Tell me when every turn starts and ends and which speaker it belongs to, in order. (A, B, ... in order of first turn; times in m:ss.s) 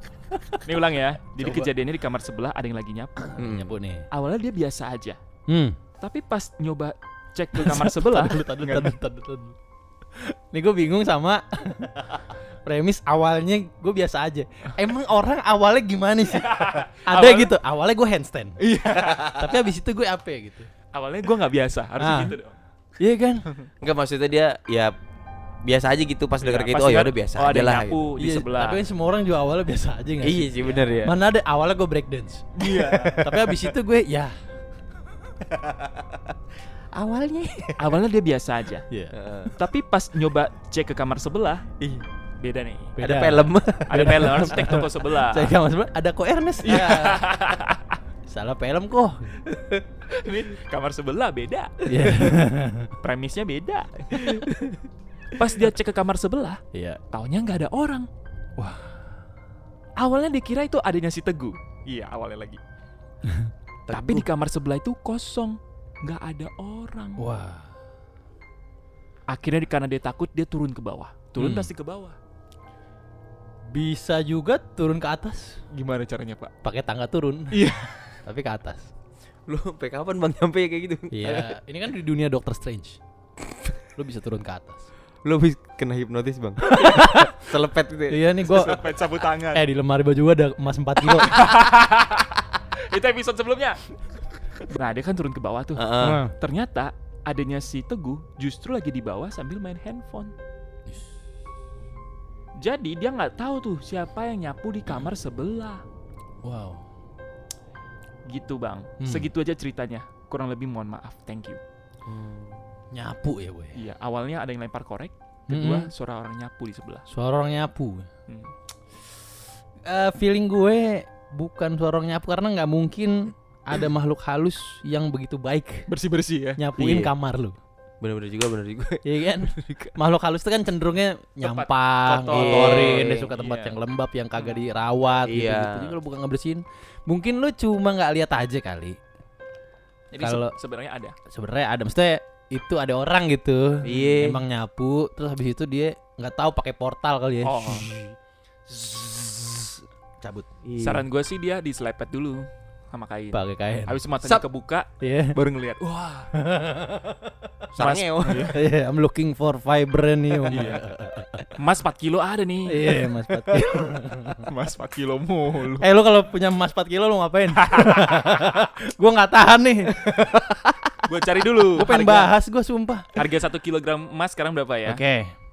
0:00.6-0:03.4 A
0:01.4-0:01.7 B
0:03.2-0:04.0 B
0:03.4-0:03.7 C
0:04.1-0:05.2 A
0:05.5-0:05.8 B
0:06.0-0:08.9 A
0:07.5-0:09.6 B
0:10.2-0:18.6 B
0:16.3-0:17.5 A
0:18.6-0:19.3 A
0:18.9-0:19.4 C
0:19.2-0:20.7 B
0:20.9-0:22.6 A
0:22.0-0:22.4 B
0:23.0-0:23.4 B
0:23.8-0:24.9 C
0:25.6-0:28.1 C
0:26.4-0:28.8 A
0:28.2-0:34.3 B
0:30.2-0:31.2 C
0:32.5-0:33.2 A
0:33.0-0:33.7 C
0:35.5-0:36.1 C
0:36.9-0:37.9 C
0:37.8-0:38.8 A
0:38.9-0:39.1 B
0:39.1-0:39.5 C
0:39.5-0:41.6 A
0:41.8-0:42.0 C
0:42.4-0:42.9 A
0:43.0-0:44.8 C
0:43.0-0:47.3 B
0:43.9-0:45.5 A
0:46.6-0:48.0 A
0:48.3-0:49.3 B
0:49.4-0:49.8 C
0:50.1-0:52.4 A
0:51.8-0:52.9 B
0:53.0-0:54.4 A
0:54.2-0:54.8 C
0:55.3-0:58.1 A
0:56.7-0:57.0 B
0:58.6-0:59.0 B
1:00.0-1:02.6 A
1:03.9-1:04.3 C
1:03.9-1:07.2 A
1:07.2-1:07.7 B
1:09.3-1:12.2 A
1:11.4-1:11.7 B
1:13.7-1:15.6 B
1:15.7-1:16.5 A
1:16.6-1:17.7 B
1:17.5-1:17.9 A
1:18.2-1:18.9 B
1:19.5-1:21.6 C
1:21.1-1:23.0 B
1:23.9-1:24.9 B
1:25.2-1:28.2 C
1:26.6-1:27.3 B
1:28.1-1:28.8 B
1:28.4-1:29.6 A
1:29.5-1:31.5 B
1:31.0-1:33.8 A
1:34.7-1:40.3 A
1:35.8-1:36.2 C
1:36.0-1:36.3 B
1:42.6-1:45.8 A
1:46.4-1:46.8 B
1:48.2-1:51.6 A
1:49.0-1:49.3 B
1:52.0-1:52.6 C
1:52.9-1:53.8 B
1:53.7-1:57.0 A
1:55.5-1:55.9 B
1:57.1-1:58.1 B
1:58.3-1:58.5 A
1:59.8-2:05.9 B
2:05.9-2:06.6 A
2:06.6-2:07.6 B
2:06.8-2:07.1 C
2:08.0-2:09.9 C
2:09.0-2:19.0 B
2:11.4-2:13.8 A
2:12.3-2:13.3 C
2:14.4-2:14.7 A
2:15.2-2:16.0 C
2:20.1-2:21.1 A
2:20.2-2:20.5 B
2:21.3-2:28.1 B
2:23.8-2:24.4 C
2:23.8-2:24.2 A
2:27.4-2:27.9 A
2:28.7-2:30.5 B
2:30.6-2:31.0 C
2:30.8-2:36.3 A
2:33.3-2:34.0 B
2:35.0-2:35.4 B
2:36.3-2:37.6 B
2:37.7-2:38.6 C
2:37.8-2:38.6 A
2:38.4-2:41.5 B
2:40.5-2:40.8 C
2:40.5-2:40.8 A
2:41.6-2:43.0 A
2:42.7-2:44.5 B
2:43.5-2:43.8 C
2:44.4-2:45.8 A
2:45.8-2:50.8 B
2:47.6-2:48.1 A
2:51.0-2:52.3 A
2:51.6-2:53.1 B
2:53.1-2:55.0 A
2:54.8-2:55.3 B